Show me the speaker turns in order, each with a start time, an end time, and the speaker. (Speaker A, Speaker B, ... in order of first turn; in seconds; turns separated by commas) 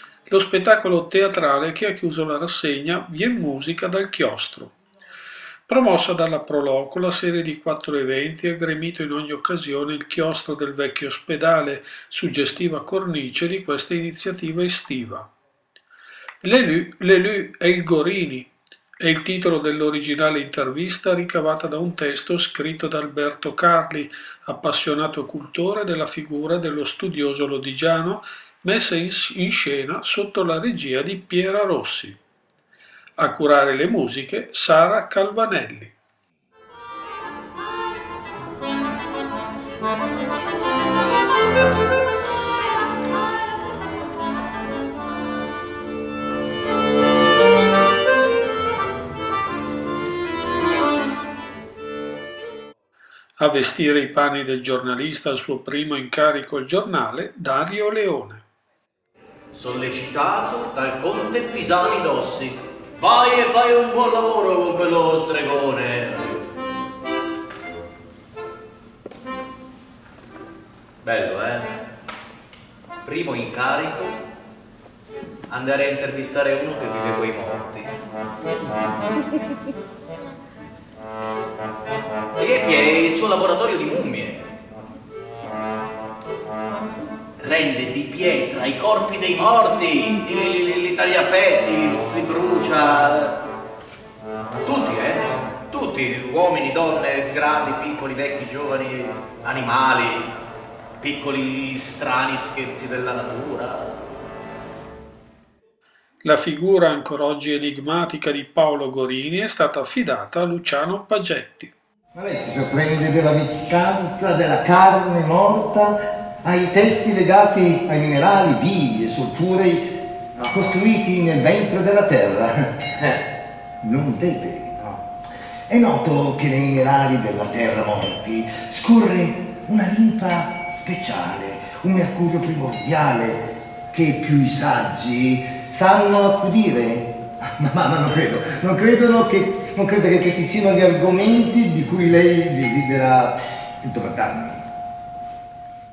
Speaker A: 0.3-4.8, Speaker A: 5.7-15.3, Speaker A: 16.4-32.1, Speaker A: 33.2-35.9, Speaker A: 53.4-58.4, Speaker B: 59.5-66.5, Speaker B: 71.0-71.7, Speaker B: 73.0-74.2, Speaker B: 75.5-77.9, Speaker B: 82.4-84.5, Speaker B: 87.4-93.4, Speaker B: 94.6-100.3, Speaker B: 101.0-104.2, Speaker A: 106.2-111.7, Speaker C: 112.1-119.9, Speaker B: 120.3-120.7, Speaker C: 120.5-122.8, Speaker C: 123.8-124.7, Speaker C: 125.7-144.6